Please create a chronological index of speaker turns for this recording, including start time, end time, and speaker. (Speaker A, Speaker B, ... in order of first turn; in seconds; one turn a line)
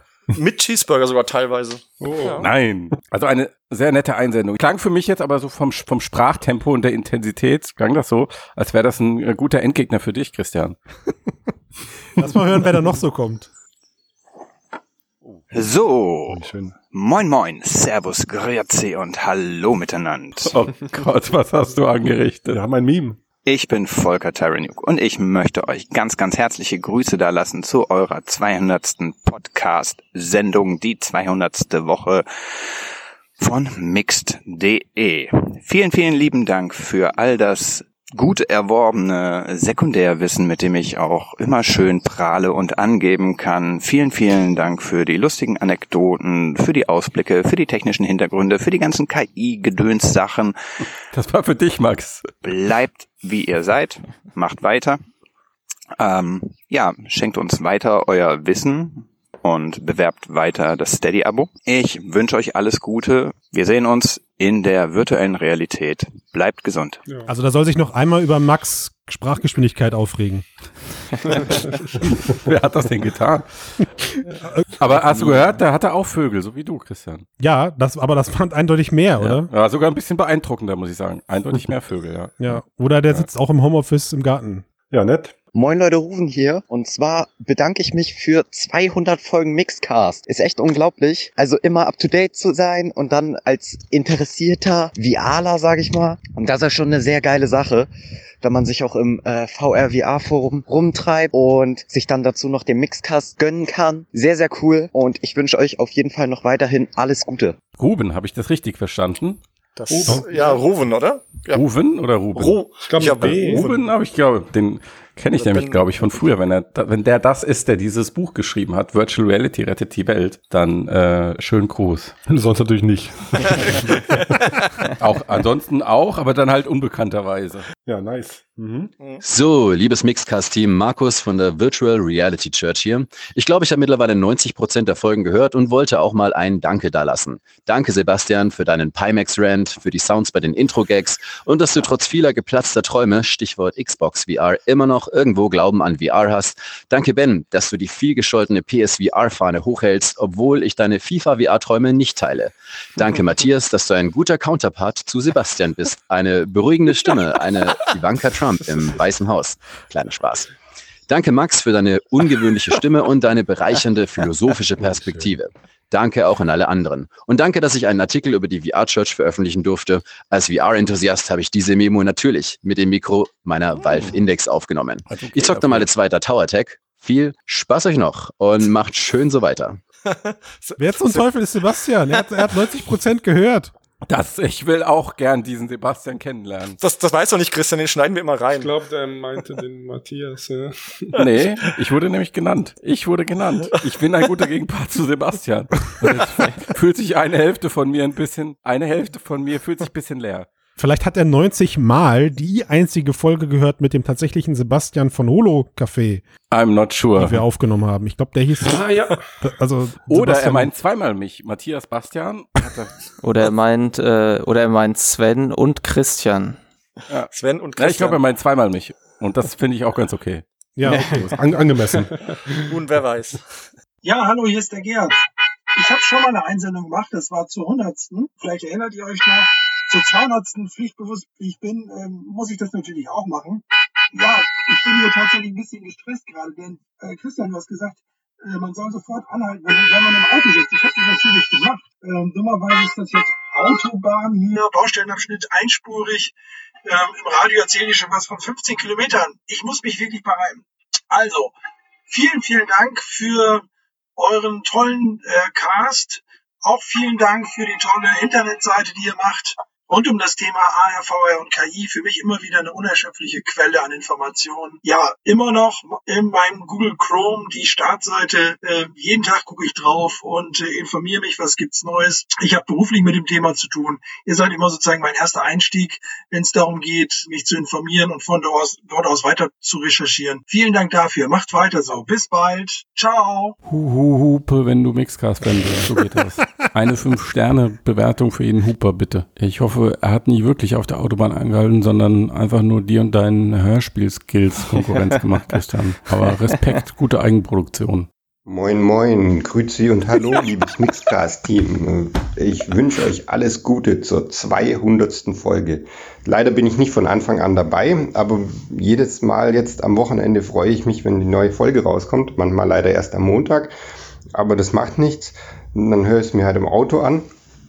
Speaker A: 0.3-2.5
Speaker B: 2.0-2.5
Speaker C: 2.4-10.8
Speaker D: 12.2-13.5
Speaker E: 15.5-20.6
Speaker F: 16.3-16.7
Speaker C: 20.5-22.6
Speaker F: 22.5-23.2
Speaker E: 23.4-32.2
Speaker E: 33.4-50.5
Speaker C: 51.1-52.3
Speaker E: 52.4-55.0
Speaker E: 56.0-67.0
Speaker D: 67.3-70.4
Speaker B: 71.3-71.7
Speaker C: 72.0-73.8
Speaker C: 74.8-77.2
Speaker D: 77.4-79.5
Speaker C: 79.2-82.3
Speaker D: 82.4-84.7
Speaker F: 84.9-85.3
Speaker G: 85.5-97.9
Speaker G: 98.4-107.5
Speaker C: 107.8-109.4
Speaker A: 109.8-111.6
Speaker B: 109.9-110.6
Speaker C: 111.5-112.6
Speaker A: 112.3-113.8
Speaker B: 112.9-113.7
Speaker C: 113.2-122.1
Speaker A: 115.4-116.1
Speaker F: 122.3-124.0
Speaker C: 125.0-127.7
Speaker F: 127.8-128.9
Speaker H: 129.2-160.5
Speaker H: 161.1-179.8
Speaker F: 164.8-165.3
Speaker C: 173.8-174.2
Speaker C: 175.1-175.9
Speaker A: 180.1-181.2
Speaker D: 180.8-183.7
Speaker C: 184.1-186.8
Speaker A: 186.8-188.7
Speaker B: 188.5-191.1
Speaker C: 191.1-200.5
Speaker D: 200.8-206.2
Speaker C: 206.5-207.4
Speaker D: 207.2-208.8
Speaker B: 208.6-209.2
Speaker D: 209.4-210.7
Speaker C: 210.1-212.9
Speaker I: 213.2-216.6
Speaker C: 217.1-220.4
Speaker A: 217.3-218.2
Speaker D: 220.8-221.2
Speaker C: 221.0-221.3
Speaker F: 221.1-222.1
Speaker A: 222.7-223.6
Speaker J: 224.0-225.2
Speaker J: 225.7-246.3
Speaker J: 246.8-251.5
Speaker J: 252.1-253.6
Speaker J: 254.2-283.5
Speaker C: 283.6-298.1
Speaker K: 298.4-313.7
Speaker K: 314.3-317.3